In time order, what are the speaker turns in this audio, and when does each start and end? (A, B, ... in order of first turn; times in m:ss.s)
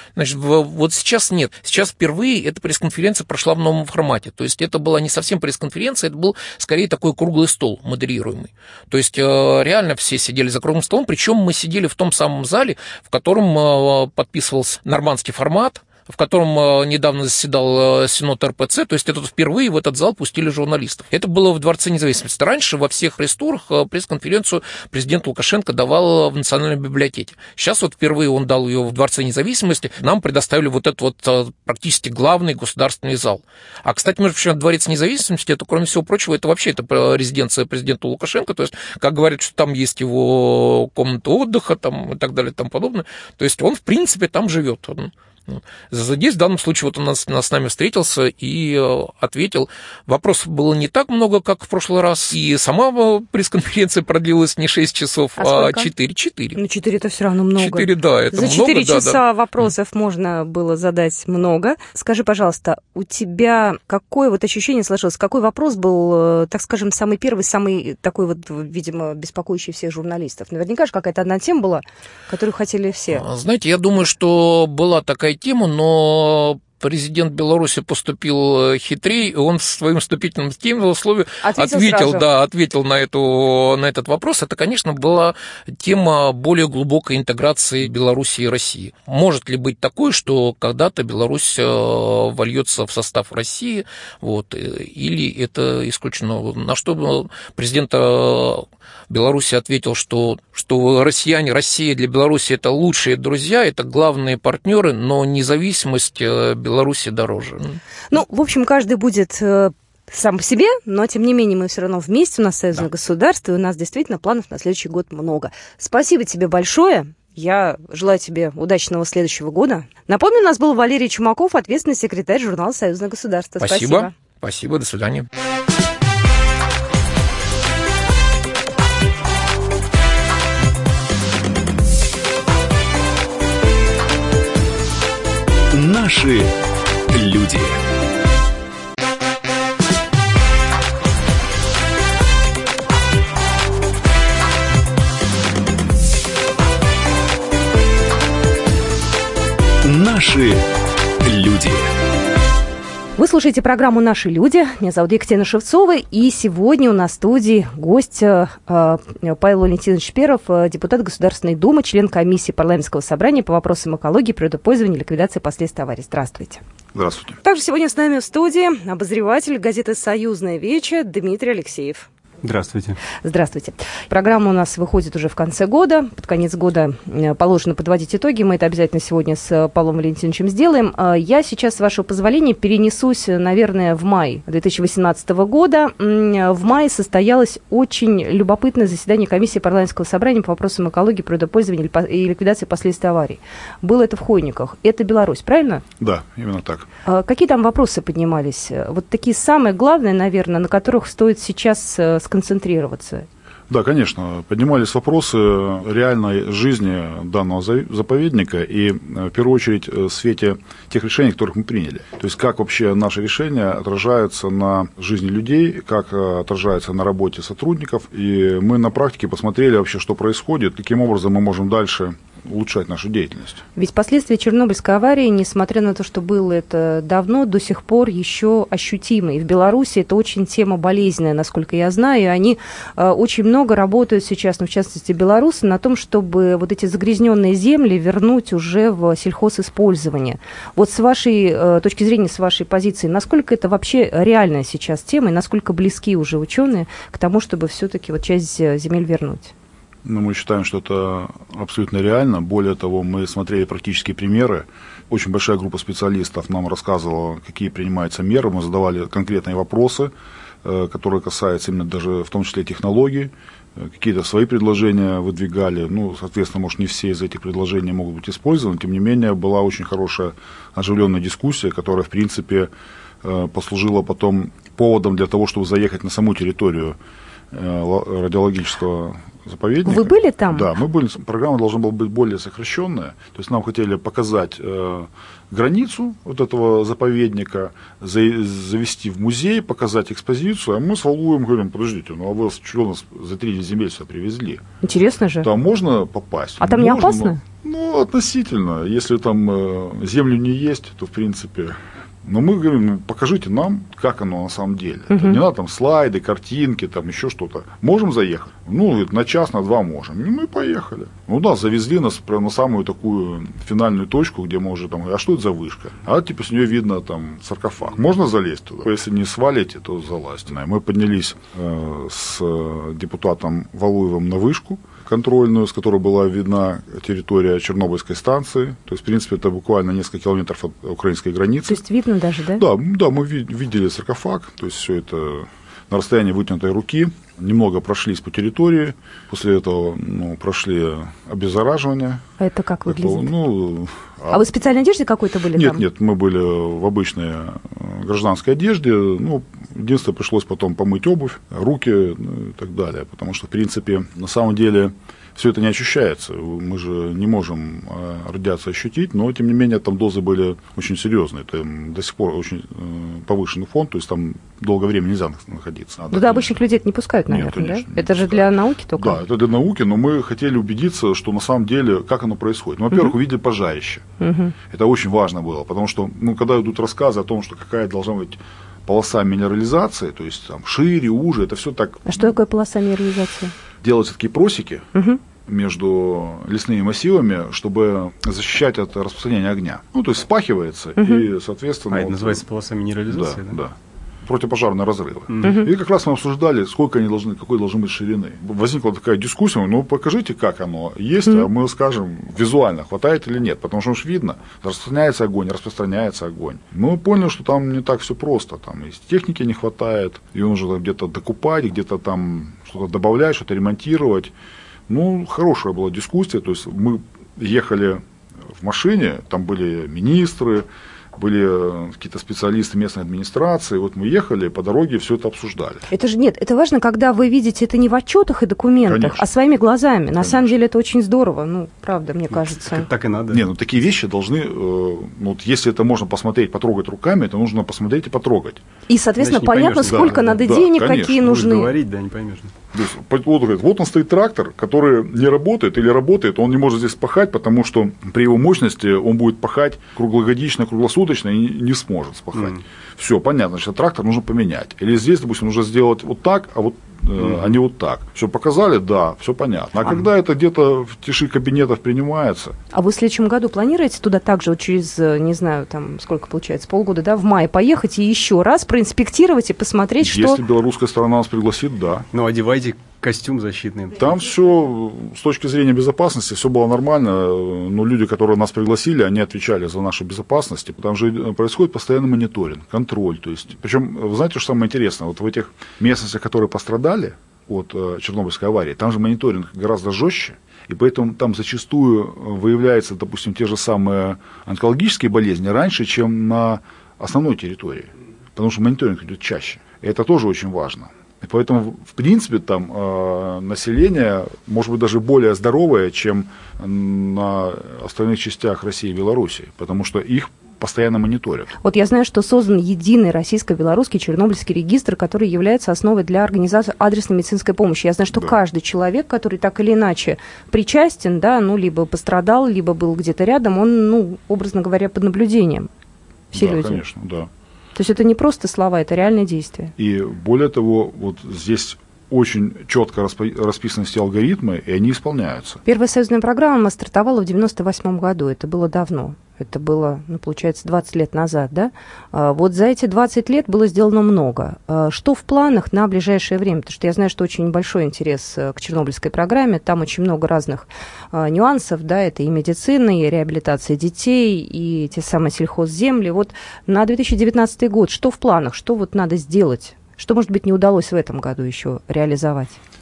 0:00.2-0:56.6 A
0:55.4-0:55.9 B
0:56.6-1:13.2 B
0:57.6-0:59.2 A
1:13.1-1:47.8 A
1:21.4-1:22.2 B
1:48.1-2:04.1 B
2:03.6-2:05.3 A
2:15.7-2:16.6 C
2:17.1-2:17.8 C
2:29.8-2:30.6 C
2:31.2-2:31.9 C
2:33.2-2:46.6 B
2:47.0-2:47.4 D
2:47.4-2:52.1 B
2:52.4-2:53.0 E
2:53.2-3:15.8 B
3:16.0-3:16.9 D
3:17.1-3:23.3 B
3:23.7-3:43.6 D
3:43.8-4:09.5 B
4:10.0-4:20.1 D
4:20.6-4:32.7 D
4:33.2-4:37.0 D
4:37.5-4:54.6 D
4:39.8-4:40.7 B
4:54.8-4:55.5 B
4:55.4-5:31.8 D
4:56.6-4:57.4 B
5:05.1-5:05.4 B
5:31.7-5:32.6 B
5:32.6-5:42.2 D
5:42.4-5:43.3 B
5:42.8-5:44.5 D
5:44.3-5:45.8 B
5:45.5-6:06.6 D
6:06.1-6:09.2 B
6:07.3-6:14.0 D
6:14.2-6:14.5 B
6:14.6-6:22.3 D
6:22.1-6:23.5 B
6:23.8-6:24.9 D
6:25.4-6:32.4 D
6:31.9-6:33.6 E
6:33.1-6:54.3 D
6:35.3-6:35.6 E
6:54.9-6:58.0 D
6:58.6-7:05.9 D
7:05.9-7:12.9 B
7:08.8-7:09.3 D
7:10.2-7:10.5 D
7:12.3-7:13.5 E
7:13.3-7:18.6 D
7:18.9-7:21.7 B
7:19.2-7:20.4 E
7:19.8-7:21.3 D
7:21.2-7:22.5 E
7:22.7-7:42.6 D
7:37.2-7:37.6 E
7:42.7-7:50.4 B
7:50.0-7:52.0 D
7:52.1-7:54.0 E
7:54.0-8:31.5 D
8:31.6-8:45.7 B
8:38.1-8:38.4 D
8:46.3-8:46.8 B
8:46.3-8:47.3 D
8:47.8-8:49.7 B
8:49.8-8:55.6 D
8:55.6-9:22.6 B